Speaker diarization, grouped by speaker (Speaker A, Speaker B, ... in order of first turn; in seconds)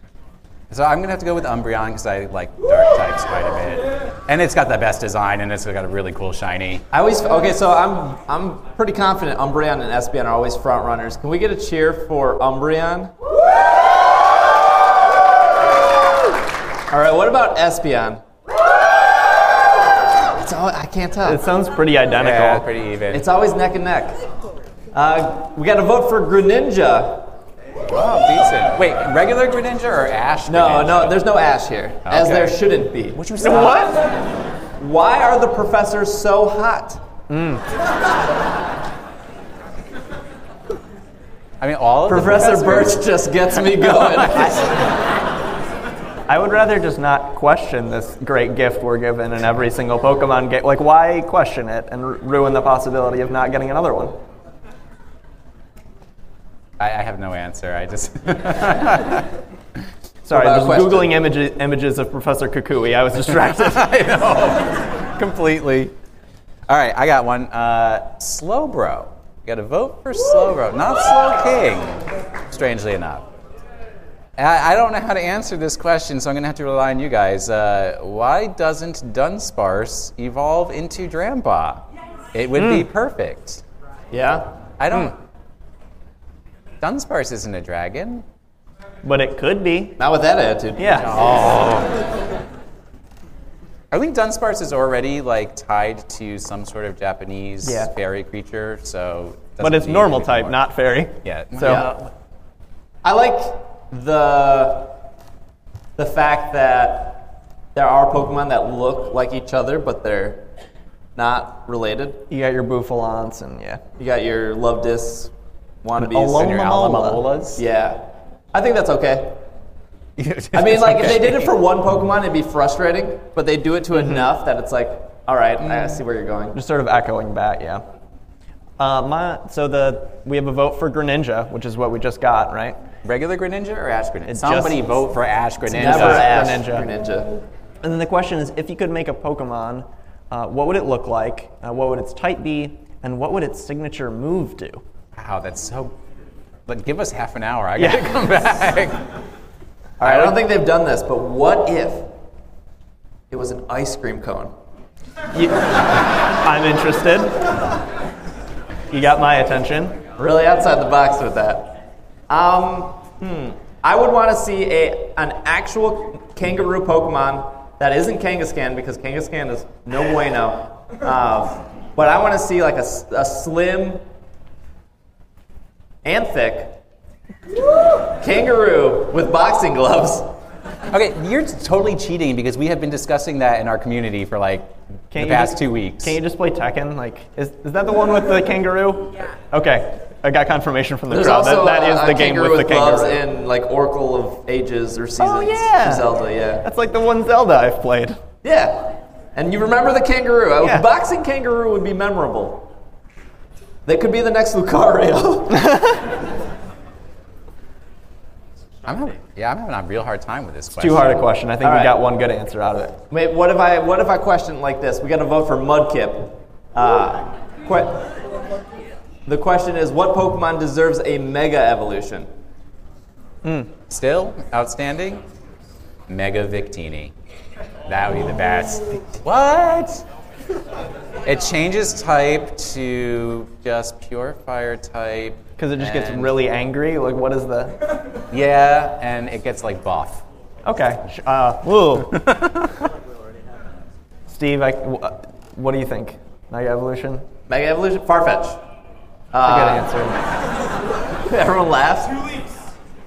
Speaker A: 0.7-6.8, 22.2-23.2, 27.9-31.3, 32.1-34.0, 41.6-43.1, 43.6-44.6, 56.8-59.3, 63.5-65.9, 66.7-73.2, 74.4-83.6, 84.8-85.2, 86.8-88.2, 91.0-91.9, 93.9-100.6, 101.2-101.9, 116.2-117.6, 120.2-121.5, 133.0-136.3, 145.2-145.9, 146.7-149.0, 150.1-150.3, 180.9-186.2, 208.9-211.3, 223.9-225.2, 226.1-227.1, 227.9-230.0, 231.2-236.3, 238.3-240.2, 242.1-242.8
Speaker B: 6.9-13.1, 16.9-18.2, 20.4-21.4, 23.1-24.2, 24.9-27.3, 30.5-33.9, 34.8-37.0, 42.1-44.7, 60.3-61.2, 84.1-84.5, 90.0-91.1, 101.7-102.0, 103.0-105.0, 106.0-110.4, 111.2-112.2, 114.0-115.3, 115.8-116.5, 117.6-119.4, 120.5-126.6, 135.7-137.3, 150.0-152.1, 153.3-154.5, 160.2-161.7, 162.3-174.0, 176.0-176.8, 178.2-180.3, 191.1-196.7, 198.4-202.7, 203.9-205.7, 211.6-212.0, 213.1-218.0, 219.3-222.3, 247.5-248.6, 249.3-249.8, 251.3-252.3
Speaker C: 21.2-22.7, 33.4-34.0, 37.3-37.6, 46.3-54.2, 60.2-63.9, 82.6-82.9, 89.0-90.0, 90.8-91.1, 97.6-97.9, 99.6-101.9, 112.3-113.8, 116.0-117.3, 126.5-127.8, 128.8-132.8, 134.3-134.9, 135.7-136.9, 137.8-144.8, 147.8-148.2, 155.3-157.5, 158.9-160.0, 185.1-193.2, 195.2-198.2, 200.6-200.9, 205.6-206.0, 210.8-213.0, 223.4-223.7, 235.6-237.8, 240.7-242.2, 244.3-247.2, 249.5-250.2